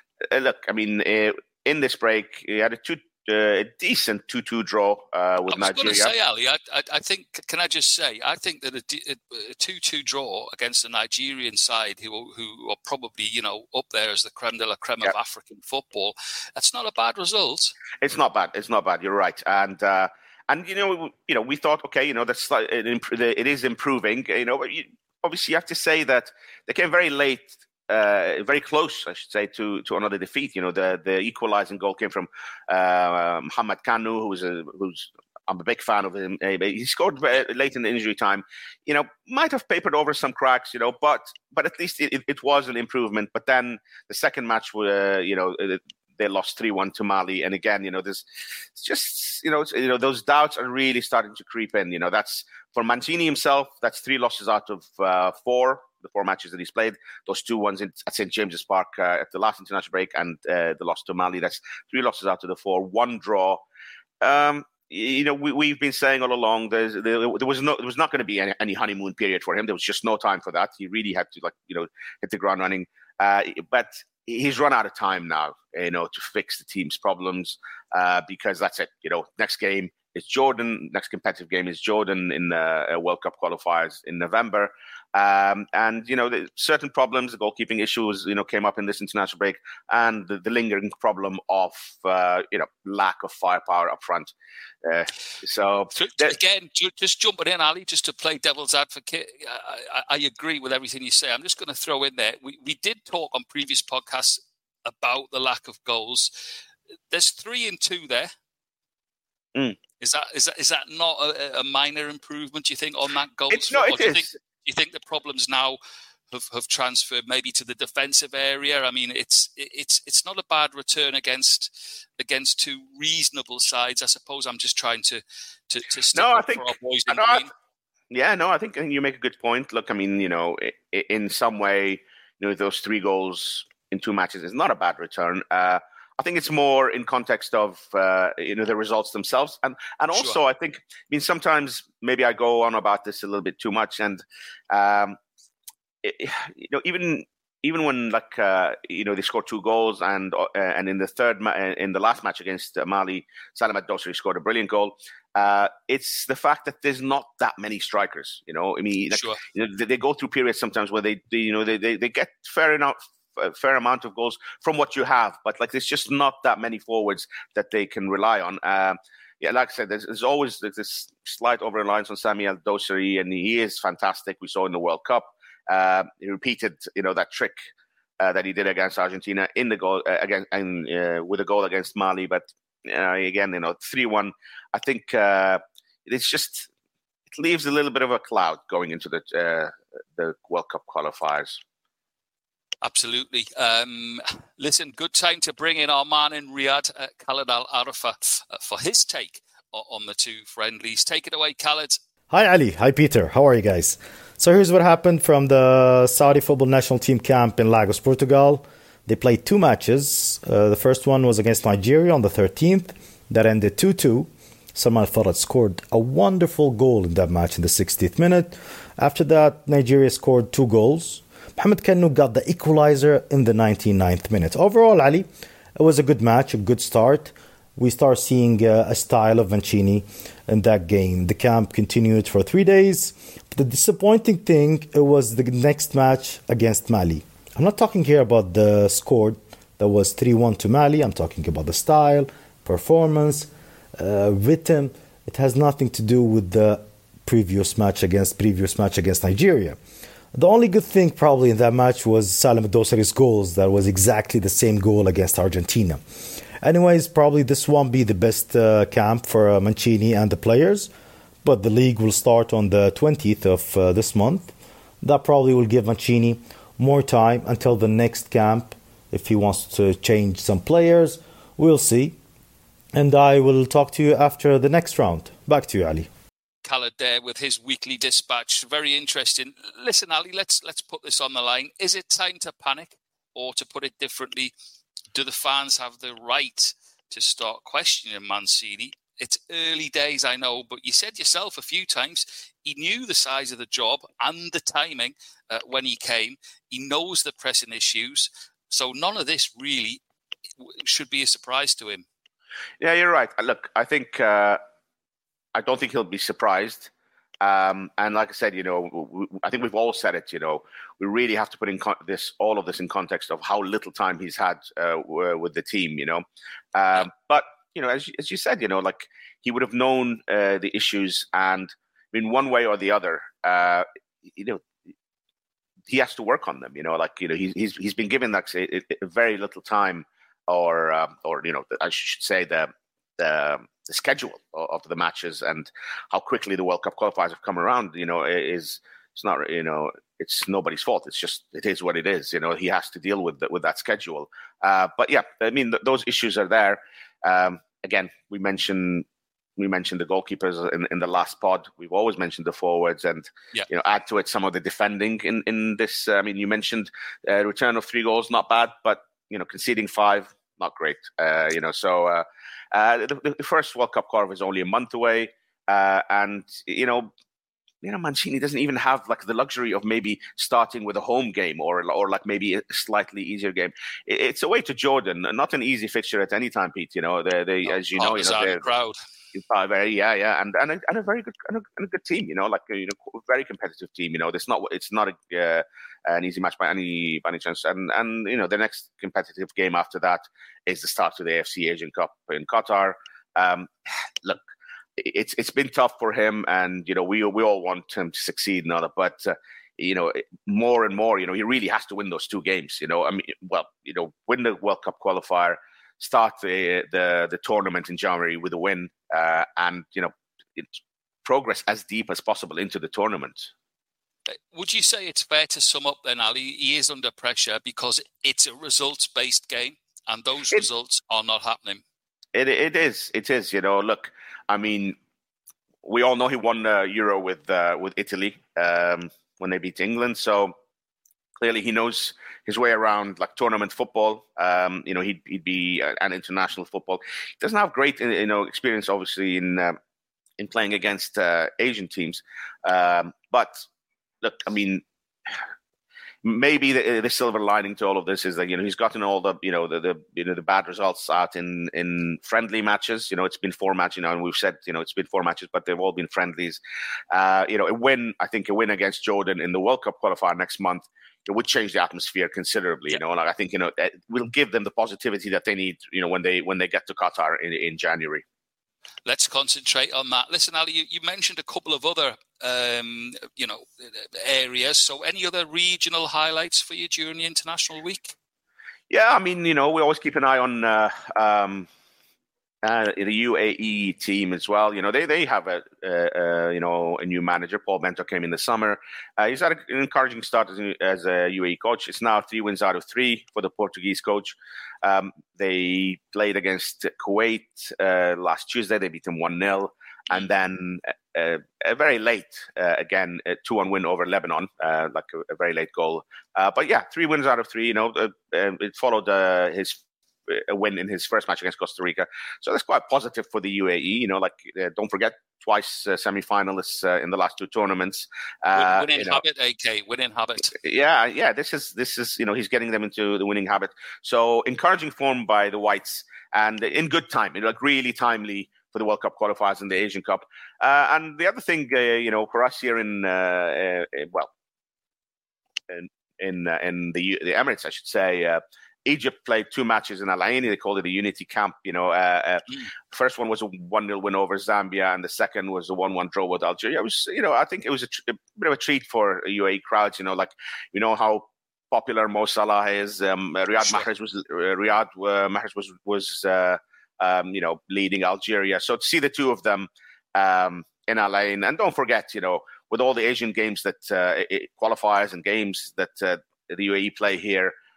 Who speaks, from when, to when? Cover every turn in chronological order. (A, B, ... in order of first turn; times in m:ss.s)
0:00.2-0:06.1 A
0:05.5-0:17.8 B
0:18.0-1:03.6 A
1:04.2-1:34.3 A
1:34.8-1:36.3 A
1:35.9-1:46.3 B
1:47.1-1:48.3 B
1:50.0-1:55.8 B
1:53.5-1:54.4 A
1:56.3-2:07.5 B
2:06.1-2:07.4 A
2:08.1-2:25.2 A
2:26.0-2:57.6 A
2:39.1-2:39.4 B
2:58.2-3:06.7 A
3:07.3-3:11.6 A
3:12.8-3:22.0 B
3:22.3-4:09.8 C
4:10.3-4:16.0 C
4:16.6-4:20.9 C
4:21.4-4:32.2 C
4:32.9-4:36.1 C
4:36.6-4:44.5 B
4:45.1-5:00.0 B
5:00.6-5:02.0 B
5:02.8-5:04.6 A
5:05.5-5:24.6 A
5:25.9-5:49.0 A
5:49.6-6:07.1 A
6:07.8-6:18.6 A
6:17.6-6:19.0 B
6:19.3-6:34.4 A
6:35.0-6:53.5 A
6:54.3-7:01.8 B
7:02.3-7:05.0 A
7:05.8-7:10.5 A
7:11.4-7:19.8 A
7:20.4-7:23.6 A
7:24.2-7:24.8 A
7:26.2-7:36.6 A
7:37.1-7:48.2 A
7:49.0-7:58.1 B
7:58.9-8:01.7 A
8:02.6-8:39.2 A
8:38.6-8:40.6 B
8:40.6-8:54.3 A
8:55.7-9:27.5 A